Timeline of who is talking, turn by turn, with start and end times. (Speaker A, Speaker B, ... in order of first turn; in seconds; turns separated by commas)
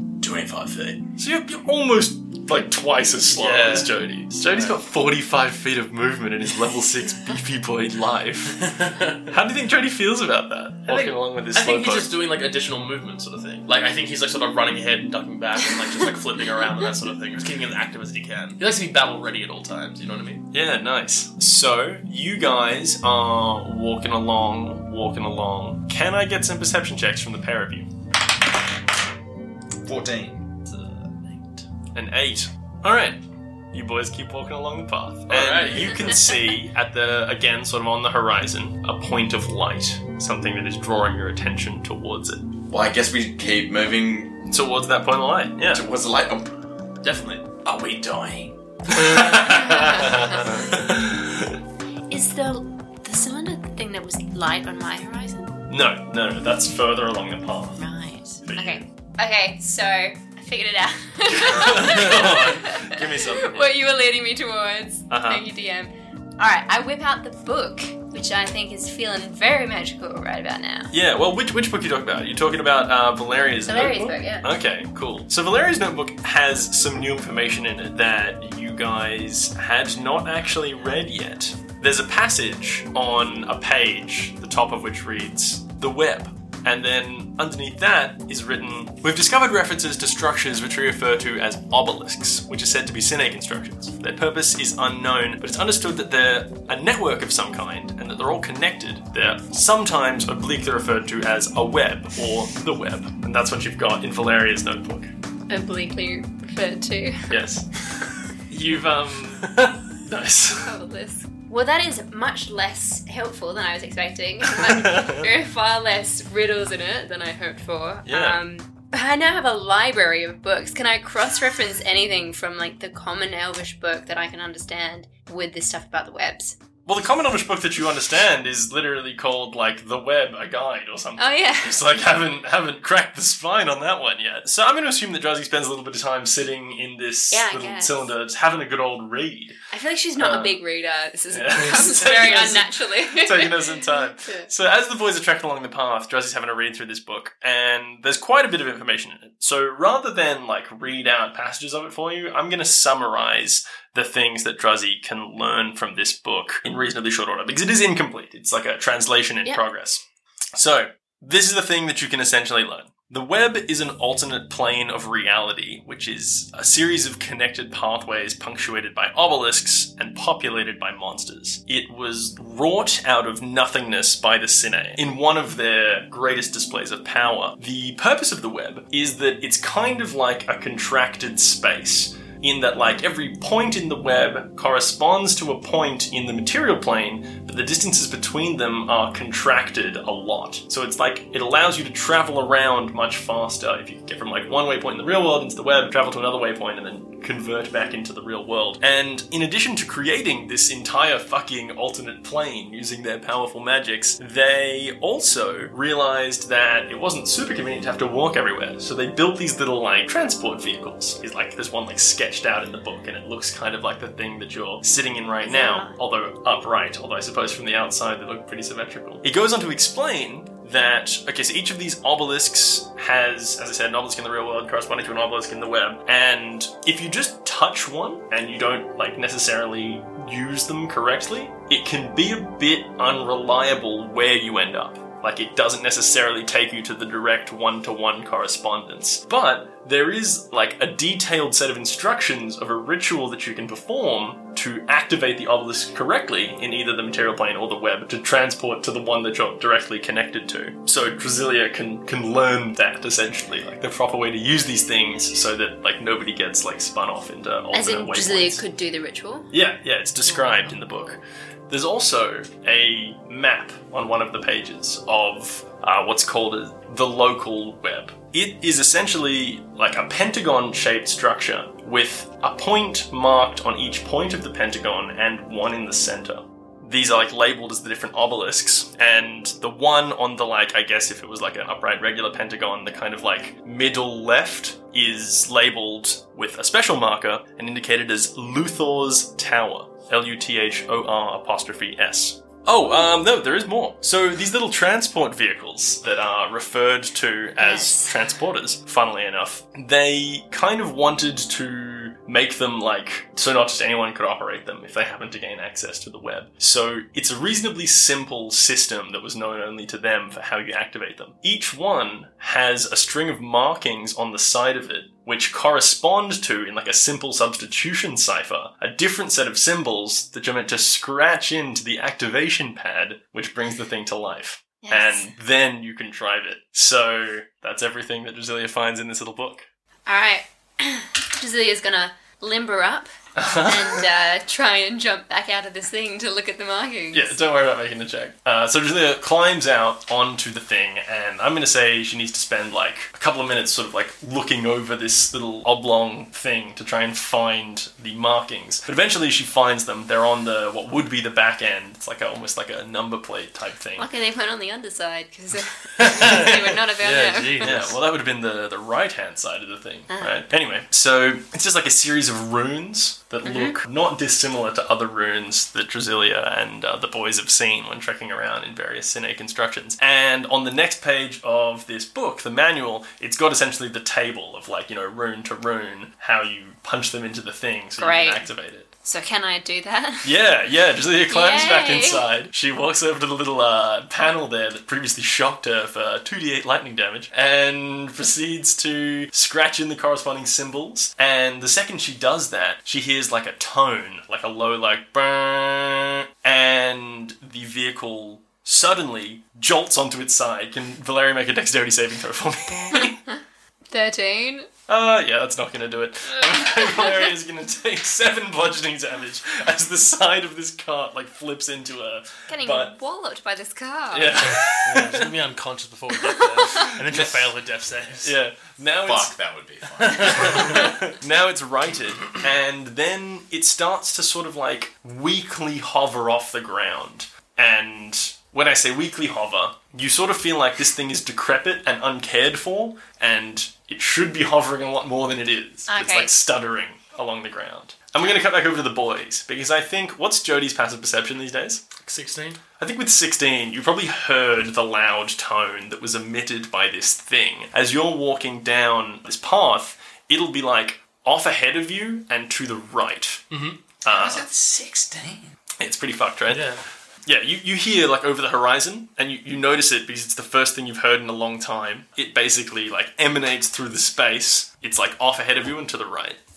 Speaker A: 0.2-1.1, Speaker B: 1.2-8.7, Speaker C: 3.3-4.8, Speaker C: 8.5-9.3, Speaker B: 9.3-12.1, Speaker C: 10.9-20.4, Speaker B: 20.5-27.9, Speaker A: 29.8-30.5, Speaker C: 30.7-31.6, Speaker B: 31.9-33.2, Speaker B: 33.7-42.6, Speaker C: 35.3-36.0, Speaker D: 35.8-36.4, Speaker A: 42.7-44.5, Speaker B: 44.5-45.8, Speaker A: 45.7-46.5, Speaker C: 47.0-47.5, Speaker A: 47.6-49.2, Speaker B: 48.9-51.6, Speaker D: 49.5-50.7, Speaker D: 52.1-55.6, Speaker B: 55.7-57.8, Speaker D: 57.8-70.9, Speaker B: 58.5-58.9, Speaker B: 61.3-63.7, Speaker C: 62.0-62.3, Speaker B: 65.1-65.5, Speaker B: 70.9-105.1, Speaker D: 73.7-74.5, Speaker D: 105.5-107.3, Speaker B: 107.3-110.7, Speaker D: 110.6-126.6, Speaker B: 114.6-115.2, Speaker B: 118.1-118.4, Speaker B: 126.9-139.6, Speaker D: 131.2-131.8, Speaker D: 137.3-138.1, Speaker D: 139.7-144.5, Speaker B: 140.2-140.6, Speaker B: 141.3-160.0, Speaker B: 160.6-258.6, Speaker D: 215.4-216.0, Speaker D: 257.7-259.5, Speaker B: 259.5-329.7, Speaker D: 260.3-260.6, Speaker D: 297.6-298.1, Speaker D: 324.8-325.3, Speaker D: 330.1-333.1, Speaker B: 333.4-334.1, Speaker D: 333.6-337.4, Speaker B: 337.1-354.1, Speaker D: 354.0-357.9, Speaker C: 356.0-358.0, Speaker B: 357.6-378.9, Speaker D: 360.1-360.4, Speaker D: 363.4-363.8, Speaker D: 378.0-378.5, Speaker D: 379.0-380.4, Speaker B: 380.2-403.2, Speaker D: 381.3-382.2, Speaker D: 403.9-404.7, Speaker B: 404.9-412.9, Speaker D: 406.6-407.3, Speaker D: 412.5-414.6, Speaker B: 414.1-415.3, Speaker C: 414.8-418.3, Speaker D: 416.3-416.9, Speaker B: 416.8-417.4, Speaker B: 418.2-419.3, Speaker A: 419.0-420.8, Speaker C: 420.0-420.8, Speaker B: 420.2-441.8, Speaker D: 435.9-436.3, Speaker C: 442.0-442.6, Speaker B: 442.8-453.4, Speaker C: 453.5-453.8, Speaker B: 454.0-454.4, Speaker A: 454.1-455.5, Speaker B: 455.8-456.7, Speaker C: 456.5-456.8, Speaker B: 457.3-466.4